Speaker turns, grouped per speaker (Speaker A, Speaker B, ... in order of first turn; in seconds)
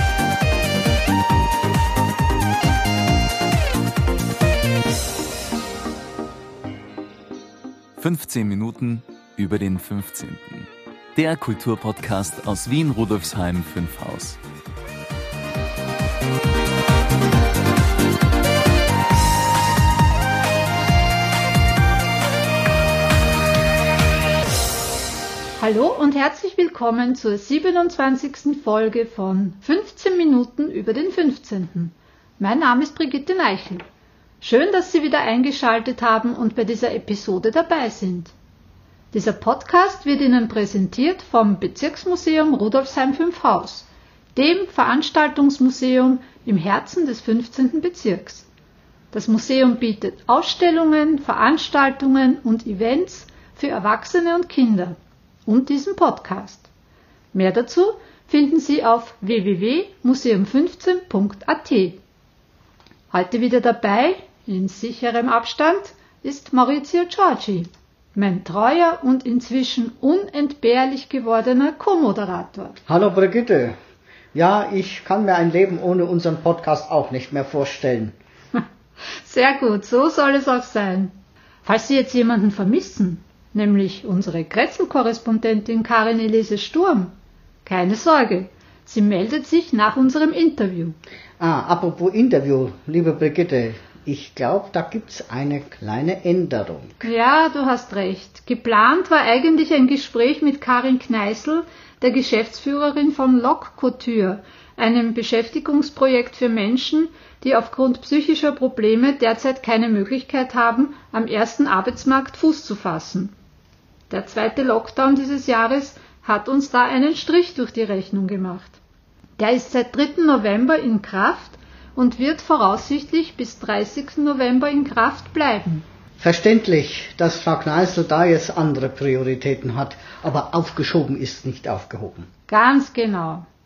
Speaker A: 8.0-14.4
Speaker B: 25.6-33.8, 34.4-38.3, 39.1-48.5, 49.1-56.7, 57.3-62.0, 63.1-72.8, 79.2-87.1, 87.6-91.0, 97.0-113.3, 114.1-118.8, 119.4-125.8, 132.5-133.4
Speaker C: 72.9-73.8, 74.3-78.2, 91.4-97.0, 126.2-132.3